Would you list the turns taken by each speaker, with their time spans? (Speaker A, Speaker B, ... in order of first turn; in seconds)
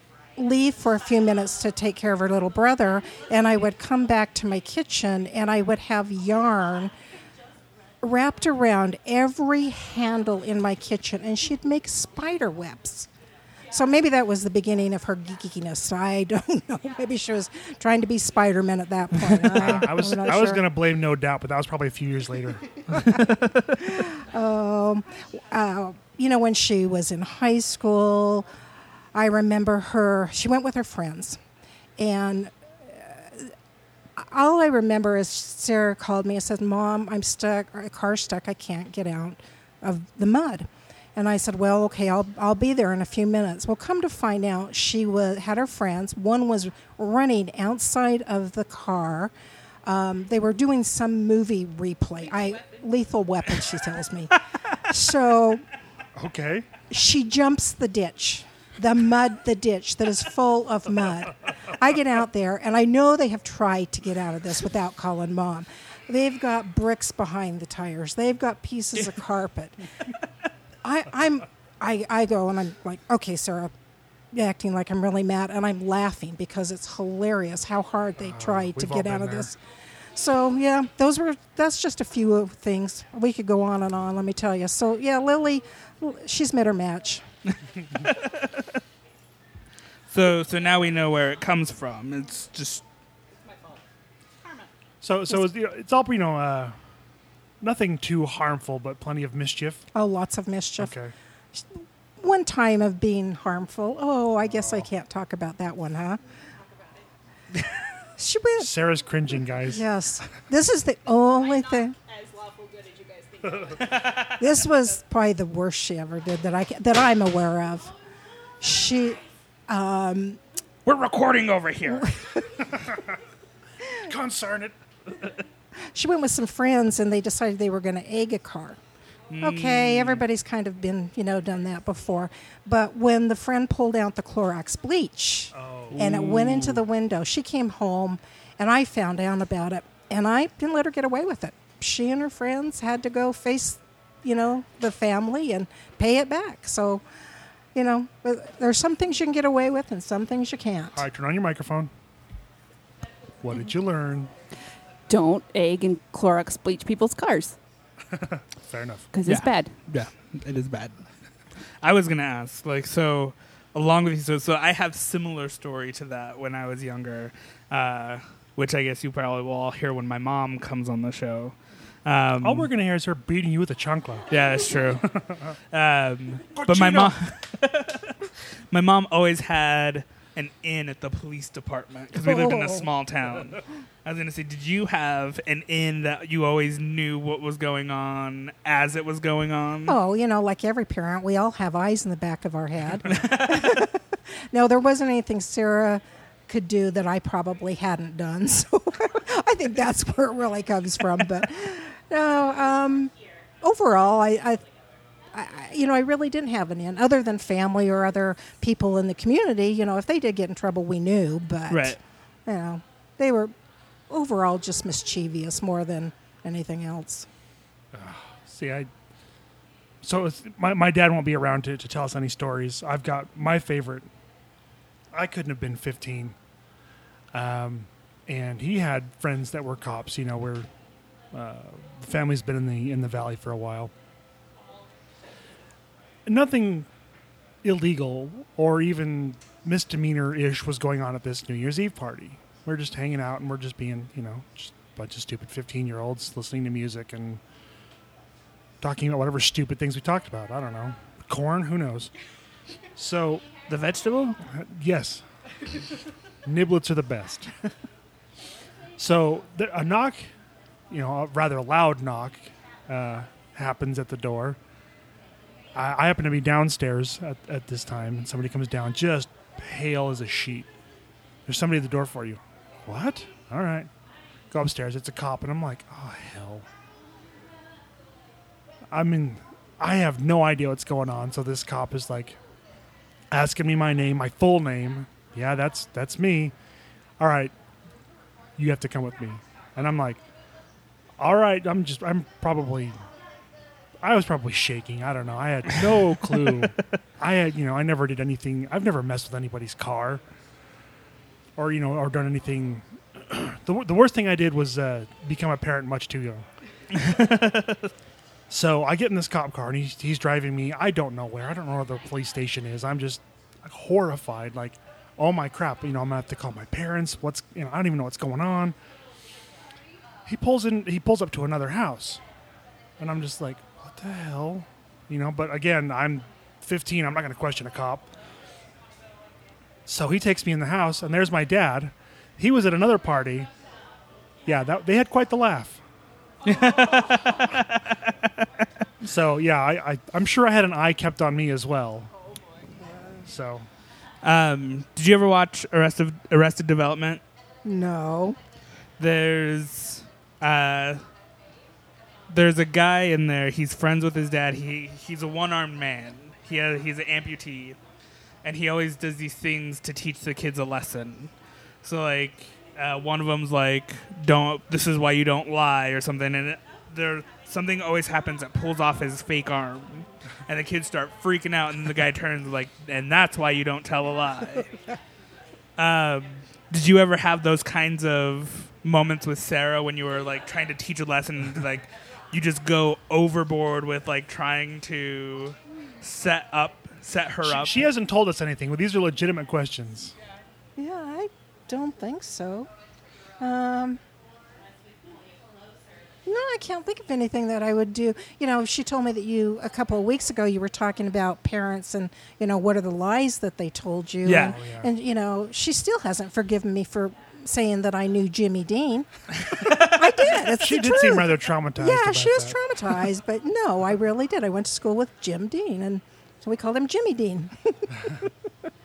Speaker A: 0.4-6.9, 8.0-13.1, 13.7-20.6, 23.1-28.5, 29.1-31.4, 32.0-33.5, 34.2-49.3, 49.9-55.6, 56.9-69.8, 70.8-73.7, 74.3-79.6, 80.2-87.2, 99.9-100.9, 101.5-106.2, 108.2-108.7, 109.7-112.0, 114.4-117.9, 118.6-120.4, 121.9-122.7, 125.9-128.8, 129.4-147.0, 147.8-151.0, 182.3-182.8, 189.9-194.0, 194.5-204.6, 205.3-213.5, 214.1-217.3, 342.8-343.2, 347.6-348.4, 390.8-392.7, 393.4-394.0, 396.2-418.3
Speaker B: 19.5-23.0, 56.2-56.7, 78.2-79.5, 95.0-96.8, 97.6-99.8, 100.8-101.1, 104.4-104.9, 108.6-109.8, 124.1-124.8, 135.5-136.2, 150.9-151.9, 153.4-154.3, 158.1-159.1, 172.4-174.3, 175.1-175.5, 176.6-177.2, 217.9-218.9, 220.0-224.1, 225.1-226.4, 227.3-230.7, 231.3-233.9, 236.3-236.9, 237.6-247.4, 248.8-252.1, 253.0-253.5, 254.4-255.2, 256.4-257.5, 259.0-260.3, 260.9-264.6, 265.8-270.7, 271.5-273.9, 274.5-276.7, 278.9-282.4, 283.3-286.5, 287.2-287.5, 288.6-290.2, 291.2-293.0, 294.0-300.2, 301.6-306.5, 308.5-318.8, 320.3-322.2, 323.0-328.1, 329.9-333.5, 334.5-335.8, 339.0-342.1, 343.3-343.7, 387.4-390.1, 404.4-404.9, 410.4-412.6
Speaker C: 23.2-23.5, 88.0-88.7, 90.1-92.8, 113.9-114.2, 120.8-122.1, 129.3-130.2, 135.9-136.8, 159.3-160.9, 161.8-172.7, 174.3-175.1, 175.7-178.2, 178.7-190.0, 193.1-193.8, 211.7-212.0, 253.7-254.4, 306.9-307.9, 336.4-338.4, 344.2-347.2, 349.0-351.0, 352.3-357.8, 358.4-361.3, 361.8-374.7, 375.8-387.9, 404.2-404.6
Speaker D: 155.1-157.6, 159.1-159.7